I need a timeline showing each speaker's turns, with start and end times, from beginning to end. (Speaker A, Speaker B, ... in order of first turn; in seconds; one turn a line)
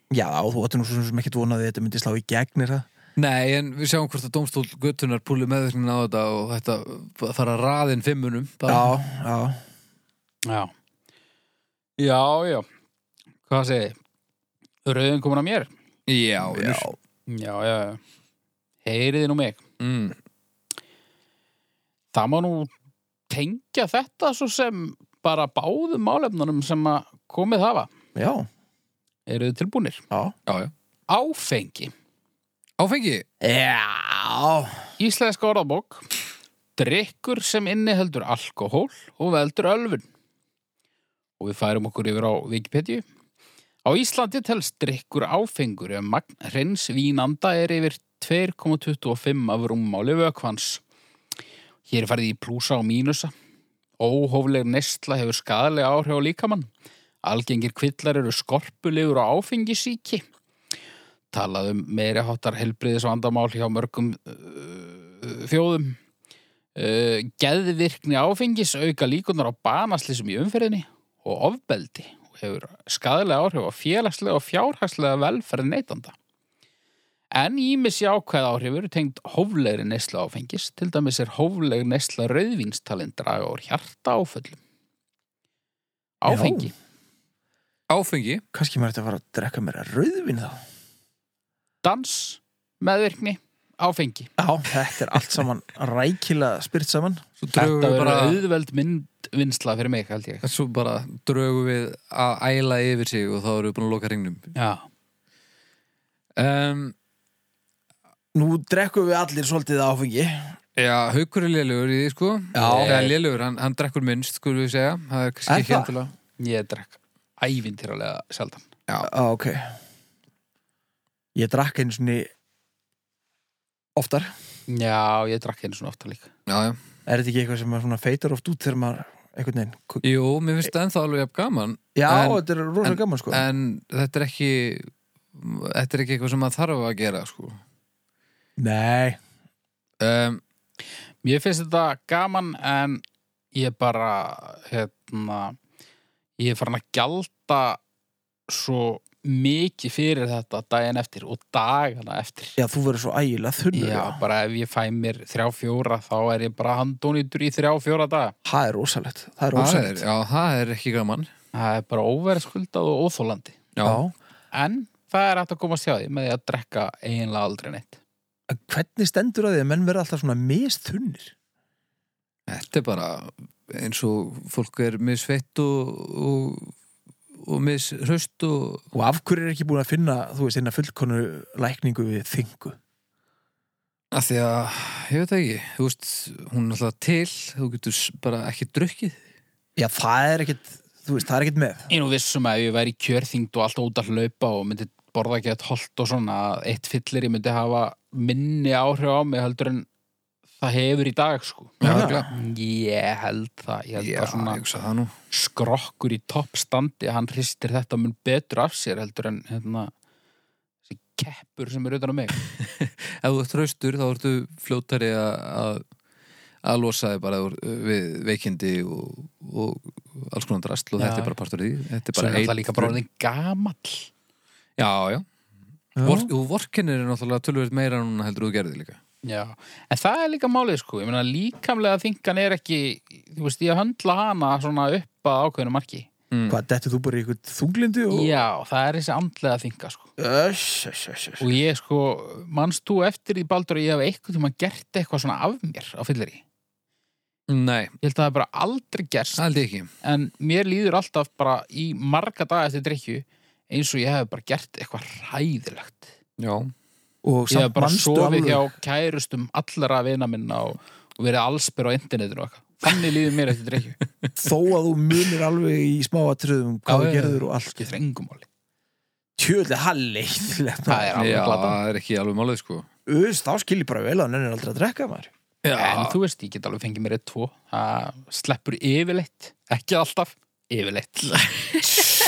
Speaker A: 0.1-2.9
Speaker B: 3.2-8.9
Speaker A: 8.7-9.6
Speaker C: 10.4-10.7
Speaker C: 12.0-12.7
Speaker C: 13.5-13.9
Speaker C: 14.8-15.7
Speaker B: 16.1-16.9
Speaker A: 16.4-16.9
Speaker C: 17.3-18.0
Speaker C: 18.8-19.6
Speaker B: 19.8-20.1
Speaker C: 22.1-22.7
Speaker C: 23.3-27.9
Speaker A: 28.1-28.5
Speaker C: 29.3-30.0
Speaker B: 30.5-30.7
Speaker C: 31.1-31.9
Speaker B: 32.8-33.2
Speaker A: 33.4-34.8
Speaker C: 35.0-36.1
Speaker C: 36.8-40.0
Speaker C: 41.4-43.0
Speaker C: 43.8-50.8
Speaker C: 51.9-53.3
Speaker C: 54.0-56.7
Speaker C: 57.2-60.2
Speaker C: 61.3-66.0
Speaker C: 66.8-76.1
Speaker C: 77.3-84.6
Speaker C: 86.2-86.7
Speaker A: 86.3-86.7
Speaker B: 87.9-88.4
Speaker A: 88.5-90.6
Speaker C: 91.8-94.3
Speaker A: 94.4-97.2
Speaker B: 97.4-98.4
Speaker C: 97.5-100.4
Speaker B: 100.4-104.5
Speaker C: 104.5-104.8
Speaker B: 106.4-106.9
Speaker A: 108.3-110.6
Speaker B: 110.8-116.1
Speaker A: 112.5-113.1
Speaker C: 112.6-113.1
Speaker A: 115.5-115.9
Speaker C: 116.4-118.7
Speaker A: 119.0-119.8
Speaker A: 121.3-122.3
Speaker A: 124.0-124.3
Speaker C: 124.7-126.3
Speaker B: 126.5-126.8
Speaker A: 127.0-130.0
Speaker B: 130.0-137.6
Speaker A: 131.9-133.4
Speaker A: 138.6-139.2
Speaker B: 140.0-140.4
Speaker C: 141.2-143.0
Speaker C: 143.5-145.6
Speaker C: 146.4-147.8
Speaker C: 148.5-152.6
Speaker A: 152.6-154.2
Speaker C: 153.7-158.3
Speaker A: 158.4-160.0
Speaker B: 159.5-161.3
Speaker C: 161.5-163.6
Speaker B: 163.8-164.0
Speaker A: 163.8-164.1
Speaker C: 164.5-168.0
Speaker A: 168.5-171.3
Speaker B: 172.5-176.7
Speaker B: 177.3-178.8
Speaker A: 178.9-182.8
Speaker B: 184.1-189.2
Speaker A: 189.8-191.9
Speaker C: 191.9-199.9
Speaker C: 200.6-204.6
Speaker B: 201.8-202.3
Speaker A: 201.8-202.3
Speaker B: 204.0-205.1
Speaker C: 205.3-209.9
Speaker C: 210.9-212.4
Speaker B: 212.4-215.8
Speaker B: 216.6-223.0
Speaker C: 221.0-221.3
Speaker C: 222.1-224.1
Speaker B: 224.8-225.2
Speaker A: 225.9-226.3
Speaker B: 226.0-229.0
Speaker C: 229.2-236.1
Speaker B: 236.3-236.6
Speaker A: 236.5-238.3
Speaker C: 238.1-240.1
Speaker A: 240.2-241.4
Speaker C: 241.4-246.4
Speaker B: 247.5-247.9
Speaker C: 248.0-249.4
Speaker B: 249.4-249.9
Speaker C: 250.0-256.1
Speaker B: 256.4-256.7
Speaker A: 257.2-258.6
Speaker C: 257.5-264.0
Speaker A: 264.4-267.9
Speaker C: 266.9-268.5
Speaker A: 269.4-271.2
Speaker C: 270.9-271.8
Speaker B: 271.2-272.9
Speaker A: 273.1-275.3
Speaker B: 275.6-276.2
Speaker C: 275.7-282.1